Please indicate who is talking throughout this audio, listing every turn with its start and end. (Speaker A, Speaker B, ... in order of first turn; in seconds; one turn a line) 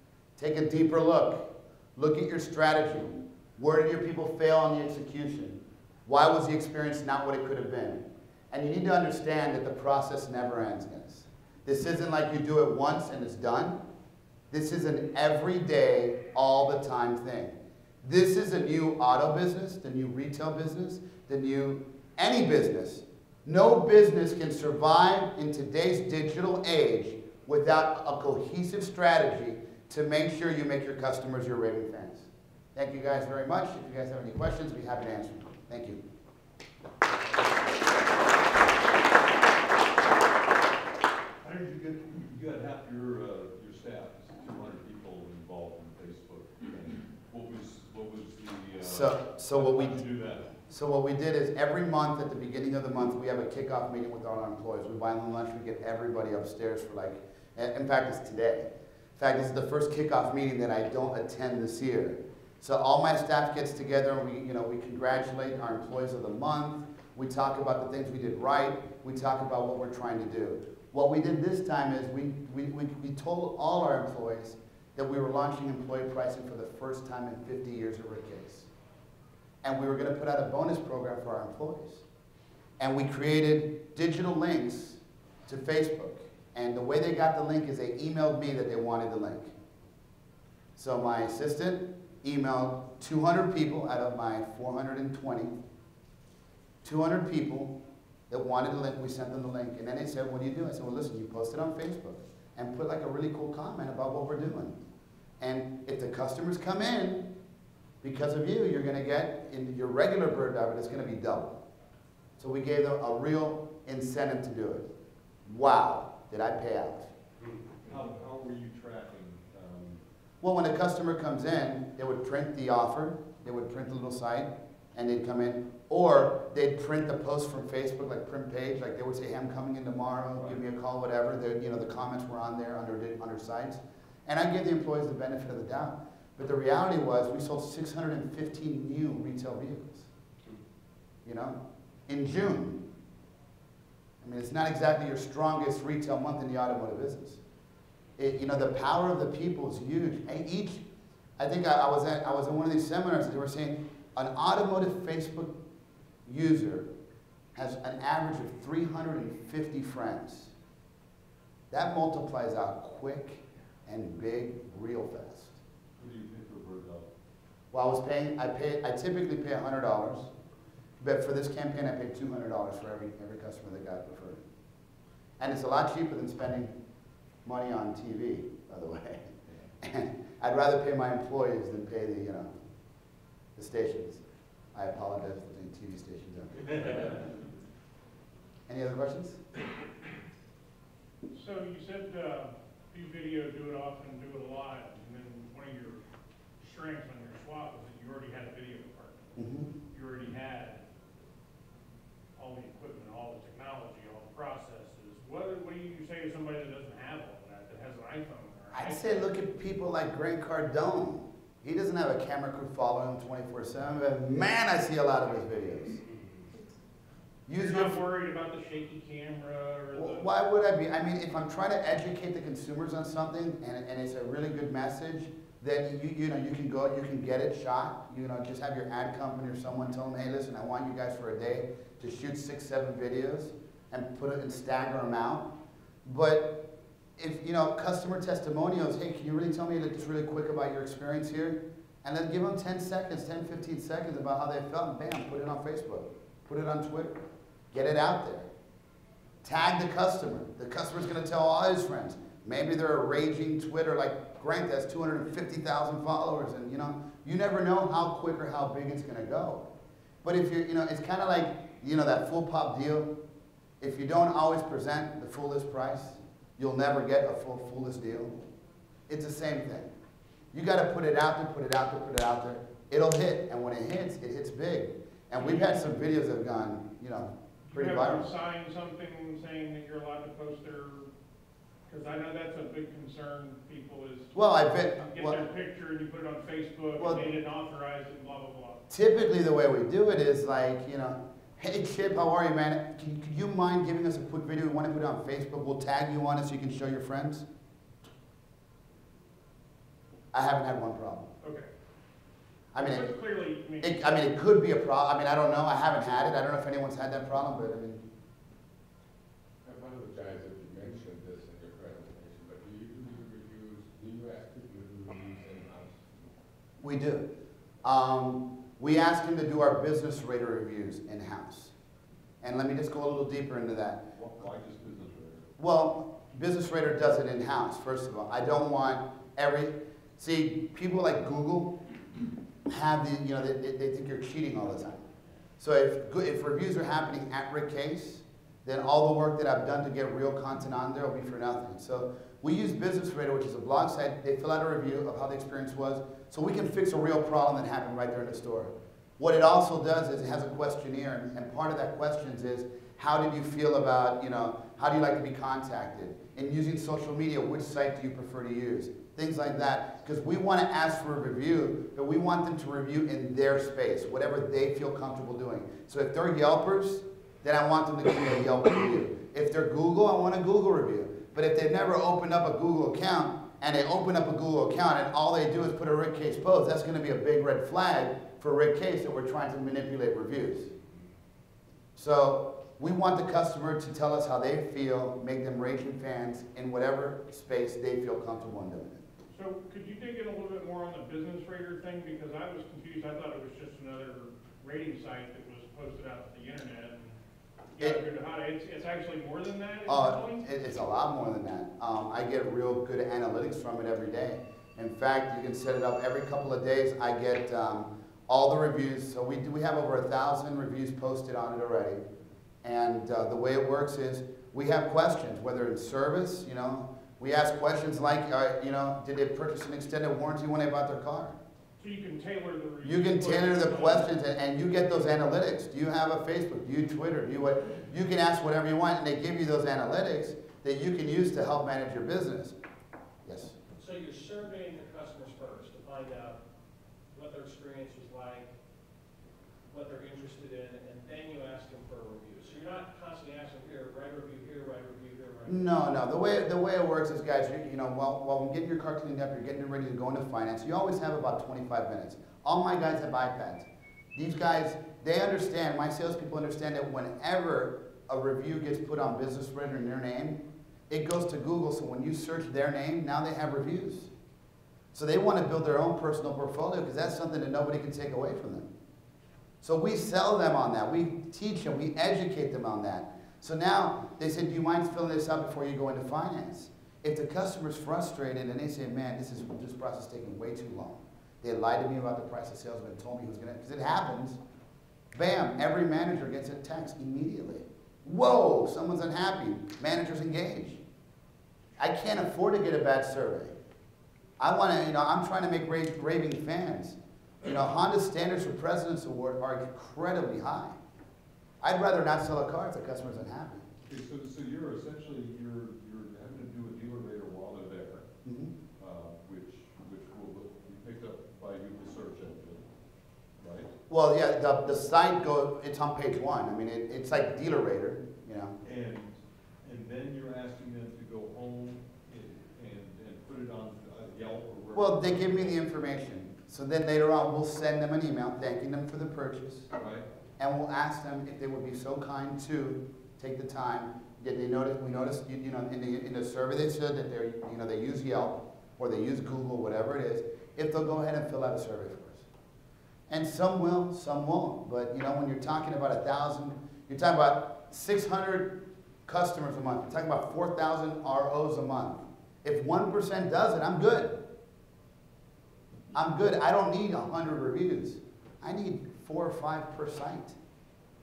Speaker A: 0.4-13.8
Speaker A: 14.5-36.0
Speaker B: 41.4-50.5
Speaker A: 48.8-50.0
Speaker A: 50.7-78.7
Speaker A: 79.6-82.0
Speaker A: 82.8-89.5
Speaker A: 90.8-95.5
Speaker A: 96.8-97.8
Speaker A: 98.3-104.8
Speaker A: 105.4-107.2
Speaker A: 108.0-111.6
Speaker A: 112.4-114.9
Speaker A: 115.5-117.1
Speaker B: 117.8-120.0
Speaker A: 120.4-140.1
Speaker B: 130.3-130.6
Speaker A: 141.2-142.8
Speaker A: 144.2-147.4
Speaker A: 148.2-150.8
Speaker A: 151.4-155.5
Speaker A: 156.3-156.9
Speaker A: 157.6-160.5
Speaker A: 161.7-165.6
Speaker B: 166.0-167.1
Speaker A: 167.7-170.3
Speaker A: 171.0-174.4
Speaker A: 175.4-176.7
Speaker A: 177.4-182.5
Speaker A: 183.6-184.2
Speaker A: 184.7-187.0
Speaker A: 188.7-189.4
Speaker C: 191.3-196.0
Speaker C: 196.6-199.3
Speaker A: 199.4-199.7
Speaker C: 199.9-200.8
Speaker C: 202.4-209.2
Speaker A: 208.7-216.0
Speaker A: 217.5-218.0
Speaker C: 217.6-220.3
Speaker A: 219.9-235.5
Speaker A: 236.1-236.7
Speaker A: 237.2-247.2
Speaker A: 247.7-248.5
Speaker A: 249.4-259.7
Speaker A: 260.2-263.1
Speaker A: 263.8-268.4
Speaker A: 269.1-269.9
Speaker A: 270.5-278.3
Speaker C: 277.7-281.1
Speaker C: 281.9-284.3
Speaker A: 284.3-285.4
Speaker C: 285.0-288.8
Speaker A: 287.0-287.2
Speaker A: 288.9-297.5
Speaker A: 300.3-301.3
Speaker C: 301.4-301.7
Speaker A: 302.7-303.1
Speaker C: 302.8-304.2
Speaker A: 303.8-308.0
Speaker D: 309.6-316.3
Speaker A: 316.8-317.3
Speaker A: 317.8-321.7
Speaker A: 322.4-324.1
Speaker B: 324.1-325.5
Speaker A: 325.6-331.8
Speaker A: 332.7-335.1
Speaker A: 335.6-380.7
Speaker A: 381.9-389.0
Speaker C: 389.3-397.2
Speaker C: 397.8-400.4
Speaker A: 399.9-412.0
Speaker A: 412.6-421.4
Speaker C: 421.8-424.1
Speaker A: 422.8-432.6
Speaker A: 433.3-433.6
Speaker E: 433.8-436.4
Speaker E: 437.1-438.5
Speaker E: 439.7-445.7
Speaker A: 445.5-464.1
Speaker A: 464.9-468.7
Speaker A: 469.6-484.4
Speaker A: 485.1-490.8
Speaker A: 491.8-493.5
Speaker A: 494.4-500.8
Speaker A: 501.6-503.6
Speaker B: 503.9-508.1
Speaker A: 508.2-508.5
Speaker B: 508.8-512.7
Speaker B: 513.4-513.7
Speaker A: 513.9-518.6
Speaker B: 518.6-525.6
Speaker A: 524.7-529.7
Speaker B: 529.7-530.0
Speaker A: 530.4-542.2
Speaker A: 543.1-554.2
Speaker A: 555.9-560.4